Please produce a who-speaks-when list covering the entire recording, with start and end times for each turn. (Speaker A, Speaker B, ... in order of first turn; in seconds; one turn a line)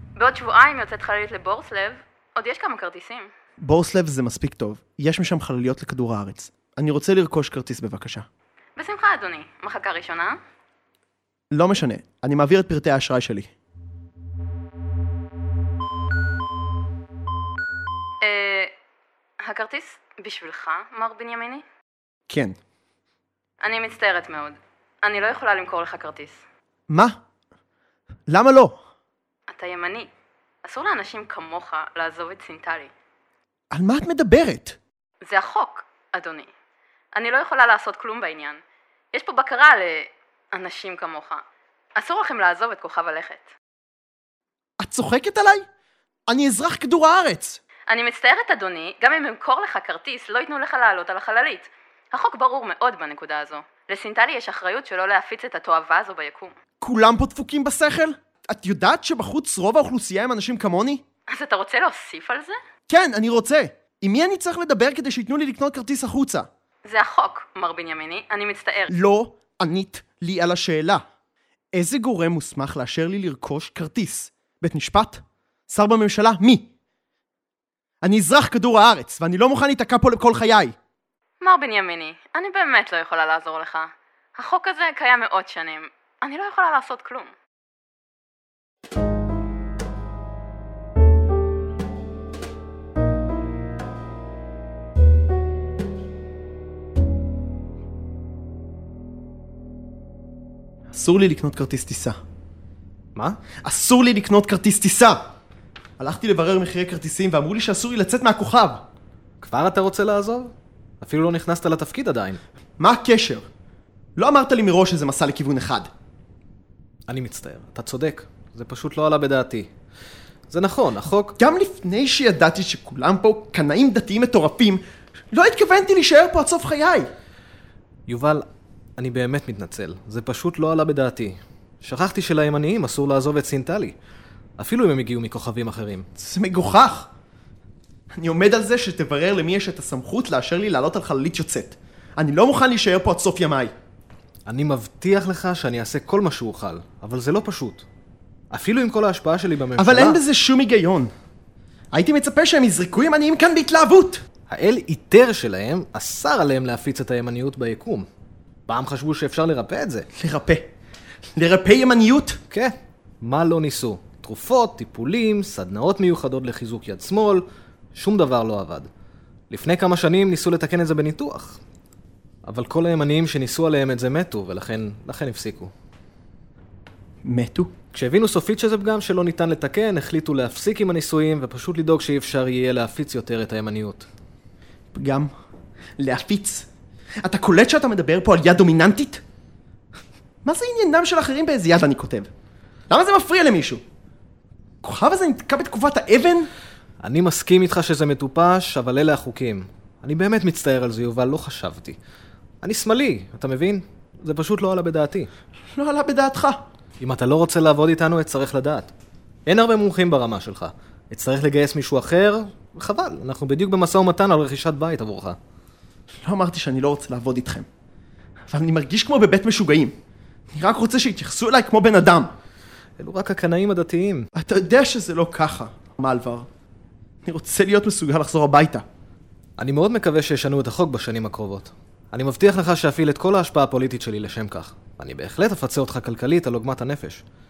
Speaker A: 0.2-3.3
Speaker B: 3.6-8.2
Speaker A: 8.8-10.4
Speaker B: 11.5-13.5
Speaker A: 18.2-18.7
Speaker A: 19.4-21.6
Speaker B: 22.3-22.6
Speaker A: 23.6-26.4
Speaker B: 26.9-27.2
Speaker B: 28.3-28.8
Speaker A: 29.5-30.1
Speaker A: 30.6-32.9
Speaker B: 33.7-34.8
Speaker A: 35.2-36.5
Speaker A: 37.1-38.6
Speaker A: 39.1-41.4
Speaker A: 42.0-43.5
Speaker B: 44.8-45.6
Speaker B: 46.3-47.6
Speaker A: 47.9-56.5
Speaker B: 56.8-61.0
Speaker A: 61.3-62.6
Speaker B: 62.9-66.5
Speaker A: 66.8-68.9
Speaker B: 68.9-71.0
Speaker B: 71.7-76.7
Speaker B: 78.0-80.7
Speaker A: 81.4-87.3
Speaker B: 100.9-102.2
Speaker B: 103.6-105.3
Speaker B: 106.0-108.8
Speaker C: 109.4-112.4
Speaker B: 112.8-113.5
Speaker B: 114.2-115.9
Speaker C: 117.1-119.7
Speaker C: 120.5-121.3
Speaker B: 121.4-127.1
Speaker C: 128.1-128.4
Speaker C: 129.0-133.9
Speaker C: 134.6-136.1
Speaker B: 136.2-137.1
Speaker B: 138.1-143.7
Speaker C: 144.4-147.8
Speaker C: 148.5-150.2
Speaker B: 149.8-151.1
Speaker B: 151.9-154.2
Speaker C: 154.5-158.1
Speaker C: 158.7-160.1
Speaker B: 160.1-160.7
Speaker B: 161.3-162.4
Speaker C: 162.5-168.9
Speaker C: 169.5-171.6
Speaker C: 172.4-175.7
Speaker B: 177.2-177.7
Speaker C: 177.9-184.1
Speaker B: 184.9-185.3
Speaker B: 186.0-186.7
Speaker B: 187.2-189.2
Speaker B: 190.4-192.3
Speaker B: 192.9-193.8
Speaker B: 194.8-196.5
Speaker C: 197.0-202.0
Speaker C: 202.6-205.3
Speaker B: 205.7-206.6
Speaker C: 207.0-208.9
Speaker C: 209.4-215.4
Speaker B: 216.2-217.7
Speaker B: 218.5-219.9
Speaker B: 220.5-222.3
Speaker C: 223.0-224.3
Speaker B: 224.3-226.5
Speaker B: 227.2-228.8
Speaker C: 229.6-237.2